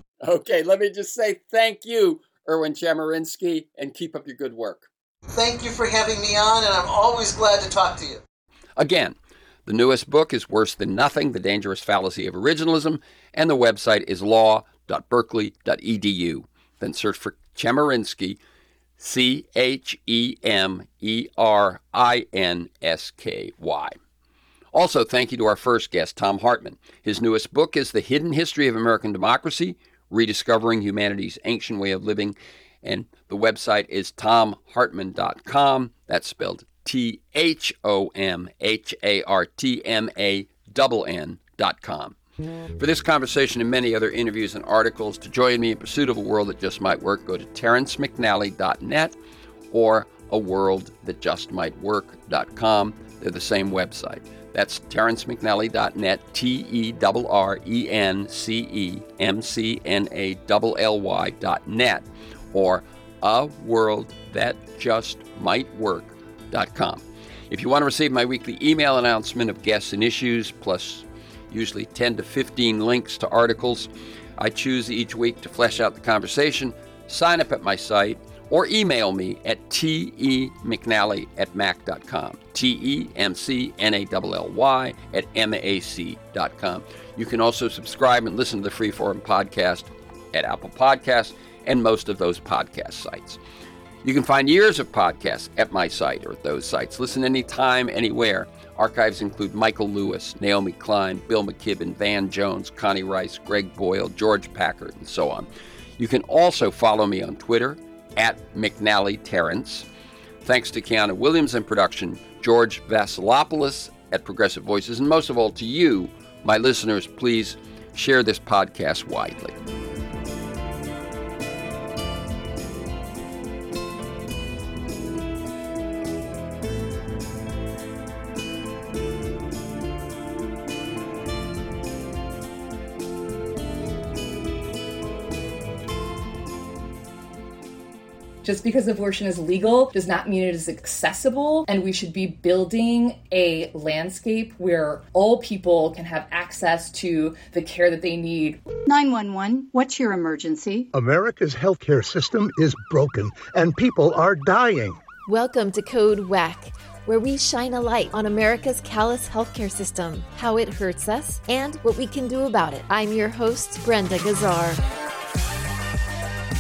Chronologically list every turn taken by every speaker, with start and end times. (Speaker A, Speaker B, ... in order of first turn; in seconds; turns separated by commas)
Speaker A: 0.2-4.8, Speaker B: 5.3-8.2, Speaker A: 8.8-9.1, Speaker A: 9.7-18.4, Speaker A: 19.0-24.0, Speaker A: 24.7-42.1, Speaker A: 42.8-49.1, Speaker A: 49.7-93.4, Speaker A: 94.0-109.9, Speaker A: 110.4-119.5, Speaker C: 138.4-148.6, Speaker D: 148.8-150.9, Speaker E: 150.9-155.0, Speaker F: 155.3-164.8